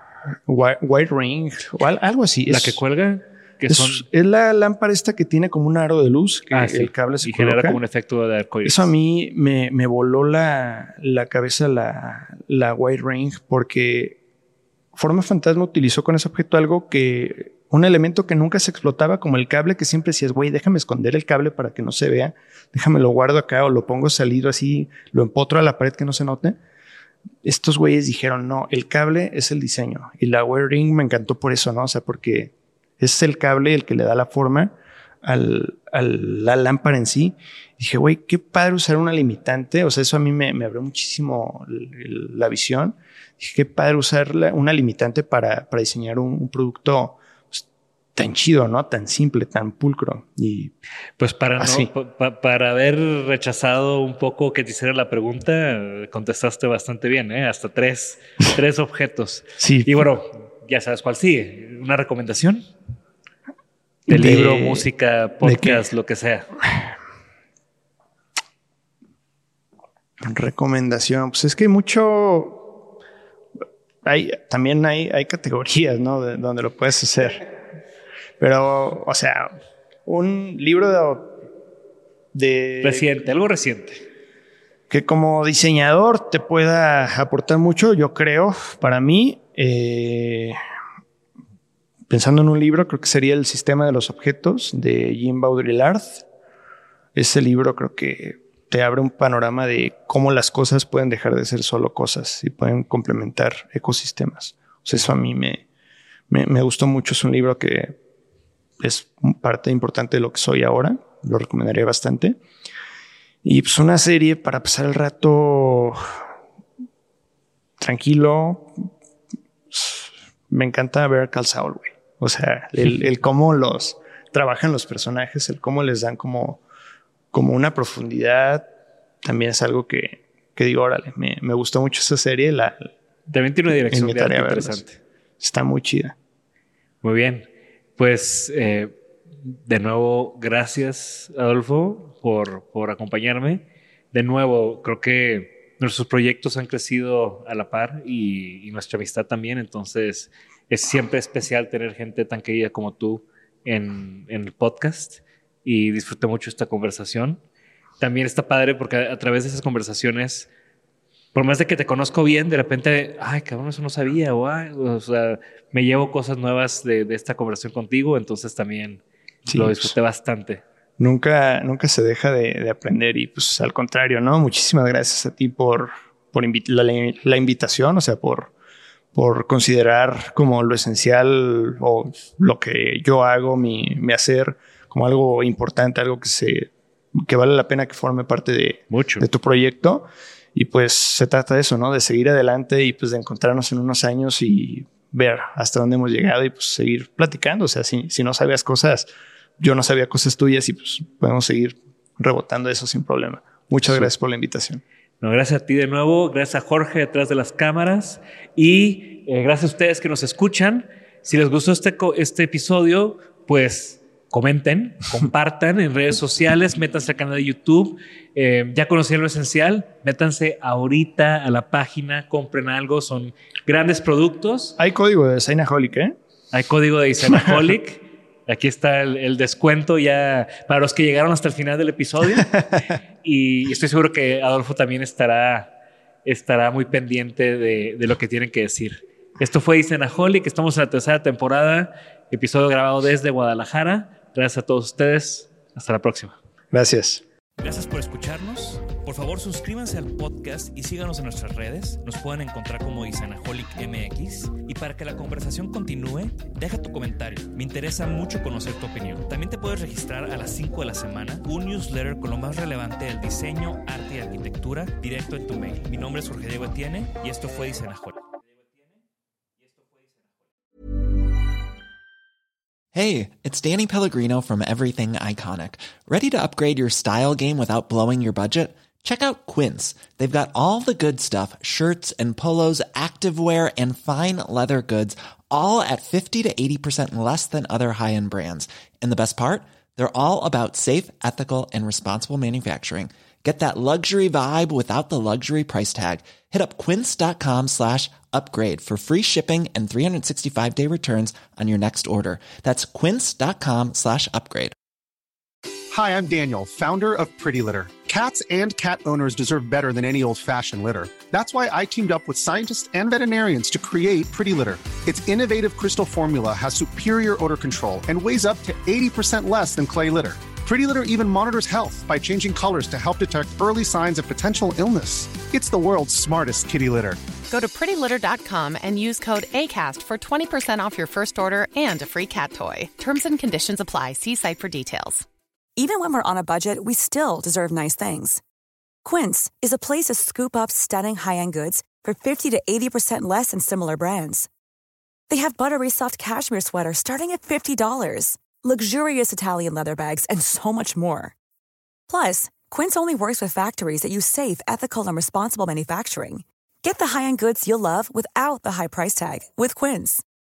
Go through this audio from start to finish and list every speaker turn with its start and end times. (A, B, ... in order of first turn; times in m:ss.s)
0:00.5-0:02.8 A
0:02.5-0:04.1 B
0:03.7-0:07.8 A
0:06.5-0:08.9 B
0:08.6-0:14.2 A
0:15.0-0:26.6 A
0:27.4-0:50.7 A
0:51.2-1:02.7 B
0:51.6-0:51.9 A
0:59.6-1:00.0 A
1:04.1-1:04.9 A
1:04.1-1:06.5 B
1:05.4-1:05.8 A
1:10.2-1:12.7 A
1:14.0-1:17.5 A
1:18.4-1:19.5 A
1:20.1-1:21.4 A
1:22.3-1:23.1 A
1:22.8-1:24.0 B
1:24.9-1:30.6 A
1:32.1-1:36.2 A
1:37.2-1:45.6 A
1:46.3-1:48.0 A
1:48.8-1:52.4 A
1:53.4-1:56.0 A
1:57.8-1:58.9 A
1:59.7-2:06.6 A
2:07.3-2:08.7 A
2:09.2-2:12.9 A
2:13.3-2:15.0 B
2:13.9-2:14.8 A
2:15.4-2:16.2 A
2:17.0-2:19.0 B
2:19.7-2:37.4 B
2:38.0-2:40.5 B
2:41.3-2:49.0 B
2:49.5-2:50.0 A
2:49.5-2:50.6 B
2:51.0-2:58.5 A
2:59.1-3:19.1 A
3:08.9-3:09.3 B
3:19.6-3:24.8 A
3:23.8-3:24.1 B
3:25.2-3:44.8 B
3:44.8-3:46.2 A
3:46.5-3:52.5 B
3:47.3-3:47.6 A
3:52.4-3:52.7 A
3:53.2-3:55.7 B
3:56.2-4:06.4 B
4:06.7-4:07.2 A
4:07.6-4:28.2 B
4:32.9-5:04.7 C
5:05.9-5:27.2 D
5:27.5-5:35.2 E
5:35.8-5:38.4 F
5:39.0-5:44.5 F
5:45.3-5:51.3 F
5:52.1-6:00.2 F